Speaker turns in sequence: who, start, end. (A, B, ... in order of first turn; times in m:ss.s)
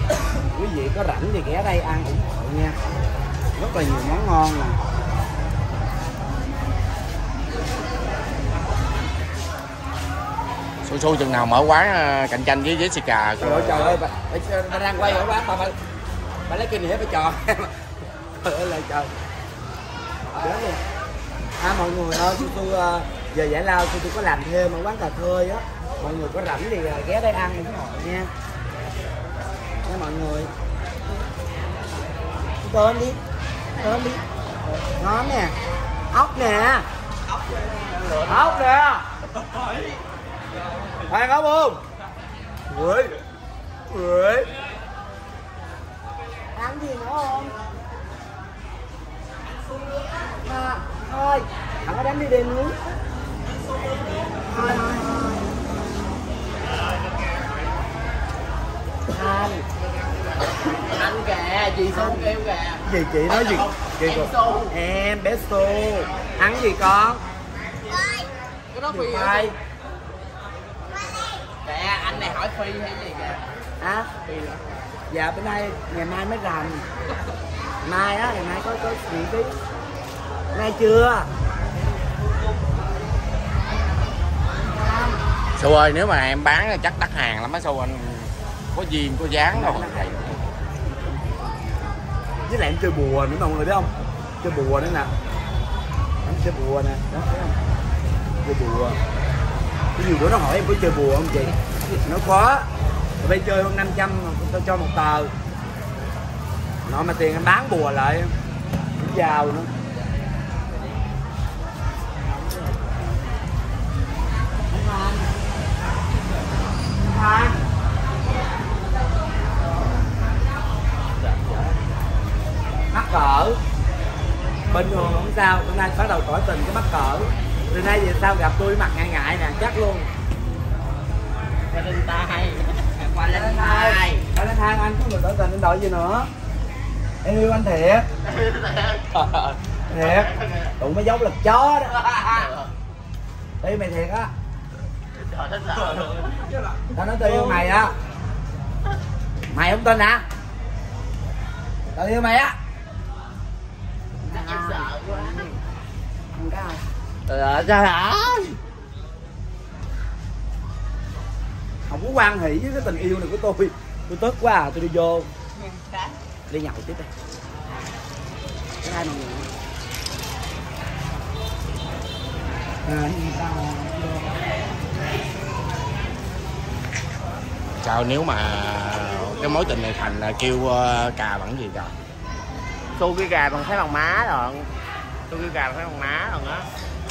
0:00.5-0:02.8 A
0:03.5-0:04.8 A
0:10.8-0:14.0 B
0:13.4-0:15.7 A
0:16.5-0:17.8 A
0:18.4-0:19.1 A
0:20.3-0:20.8 A
0:21.6-0:28.3 A
0:29.8-0:30.5 A
0:32.6-0:33.2 A
0:33.8-0:35.6 A
0:36.1-0:36.8 A
0:38.2-0:39.0 A
0:41.1-0:41.8 A
0:42.7-0:43.2 A
0:43.9-0:44.5 A
0:46.5-0:47.6 A
0:50.4-0:52.8 A
0:54.5-0:55.4 A
0:54.6-0:55.2 C
0:59.1-0:59.6 A
1:00.8-1:02.8 C
1:01.9-1:07.2 A
1:04.0-1:04.7 C
1:08.7-1:09.5 C
1:08.9-1:09.5 A
1:11.6-1:13.4 C
1:13.8-1:14.1 A
1:14.2-1:14.6 C
1:15.1-1:16.8 A
1:17.8-1:19.5 A
1:20.5-1:21.3 A
1:24.8-1:25.2 A
1:25.6-1:30.4 B
1:29.5-1:31.4 A
1:32.5-1:33.9 A
1:34.4-1:35.1 A
1:36.2-1:37.6 A
1:38.4-1:39.0 A
1:40.0-1:42.7 A
1:43.2-1:45.3 A
1:46.8-1:48.3 A
1:49.0-1:49.7 A
1:52.2-1:53.2 A
1:54.7-1:55.3 A
1:57.0-1:57.6 A
2:02.9-2:03.6 A
2:04.7-2:10.1 A
2:11.7-2:14.3 C
2:13.1-2:16.3 A
2:17.2-2:18.1 A
2:18.2-2:19.5 C
2:19.9-2:21.9 A
2:20.1-2:20.7 C
2:21.9-2:22.7 C
2:23.6-2:24.3 A
2:25.2-2:26.3 C
2:26.9-2:27.9 A
2:29.5-2:30.2 A
2:31.9-2:32.5 A
2:34.2-2:35.6 A
2:34.3-2:35.4 C
2:36.3-2:36.8 A
2:37.3-2:38.5 C
2:41.9-2:45.3 A
2:46.5-2:47.1 A
2:48.8-2:49.5 A
2:52.8-2:54.4 A
2:57.8-3:01.9 B
3:03.0-3:04.7 C
3:05.3-3:06.7 C